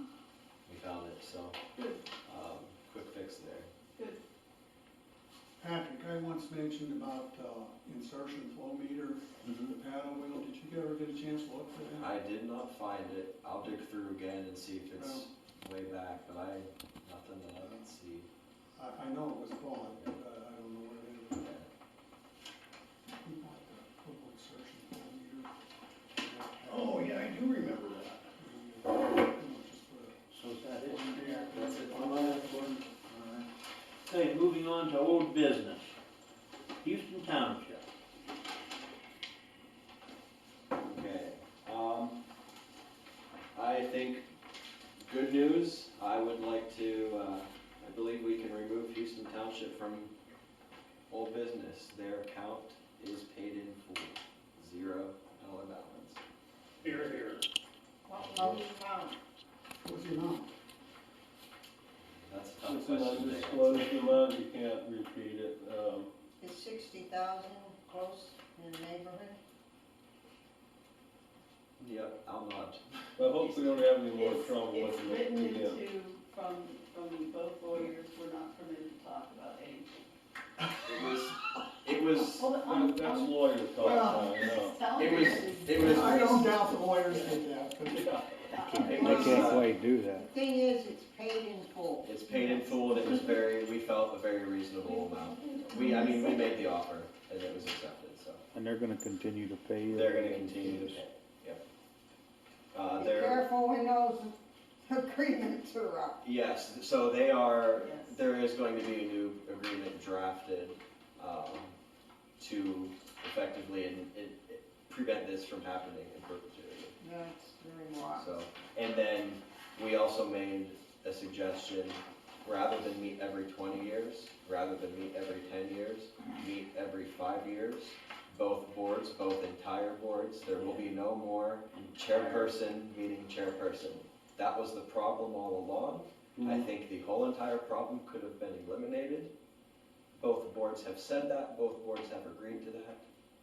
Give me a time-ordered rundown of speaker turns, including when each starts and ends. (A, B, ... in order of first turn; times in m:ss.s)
0:00.7-0:01.6 A
0:01.7-0:02.0 B
0:02.2-0:03.7 A
0:03.9-0:04.2 B
0:05.6-0:12.1 C
0:09.4-0:09.7 A
0:12.0-0:18.3 A
0:15.0-0:15.3 C
0:17.6-0:17.9 C
0:18.8-0:21.5 C
0:19.9-0:20.2 A
0:21.4-0:21.7 A
0:23.2-0:25.5 C
0:26.2-0:27.4 C
0:26.7-0:28.3 D
0:28.4-0:30.2 C
0:30.3-0:32.7 E
0:30.8-0:33.4 C
0:31.5-0:32.5 A
0:34.0-0:36.0 E
0:36.8-0:37.9 E
0:40.7-0:42.2 A
0:43.5-0:44.3 A
0:45.0-0:50.1 A
0:51.1-0:56.2 A
0:56.8-0:57.5 D
0:58.1-0:59.2 F
0:58.2-0:58.5 A
0:59.8-1:00.5 C
1:02.0-1:04.0 A
1:02.6-1:06.1 G
1:06.4-1:09.4 F
1:11.8-1:13.9 A
1:13.2-1:15.8 G
1:14.1-1:19.9 B
1:20.8-1:22.5 A
1:22.2-1:26.2 B
1:22.6-1:24.9 G
1:23.8-1:24.5 C
1:24.9-1:26.8 A
1:25.8-1:28.1 C
1:28.0-1:28.2 G
1:28.4-1:29.5 B
1:28.8-1:29.7 A
1:28.8-1:29.4 F
1:28.9-1:30.2 H
1:29.2-1:29.6 E
1:30.1-1:32.5 F
1:32.0-1:38.4 A
1:32.3-1:33.3 B
1:34.9-1:36.3 B
1:35.5-1:36.4 F
1:39.9-1:41.6 A
1:39.9-1:40.8 E
1:39.9-1:40.9 H
1:42.7-1:43.4 A
1:42.9-1:46.2 F
1:46.2-1:51.8 A
1:47.8-1:48.2 B
1:52.4-1:56.9 A
1:57.0-1:58.4 F
1:58.2-2:19.3 A
2:10.6-2:10.9 E
2:11.7-2:12.6 E
2:16.4-2:16.7 G
2:20.1-2:23.0 A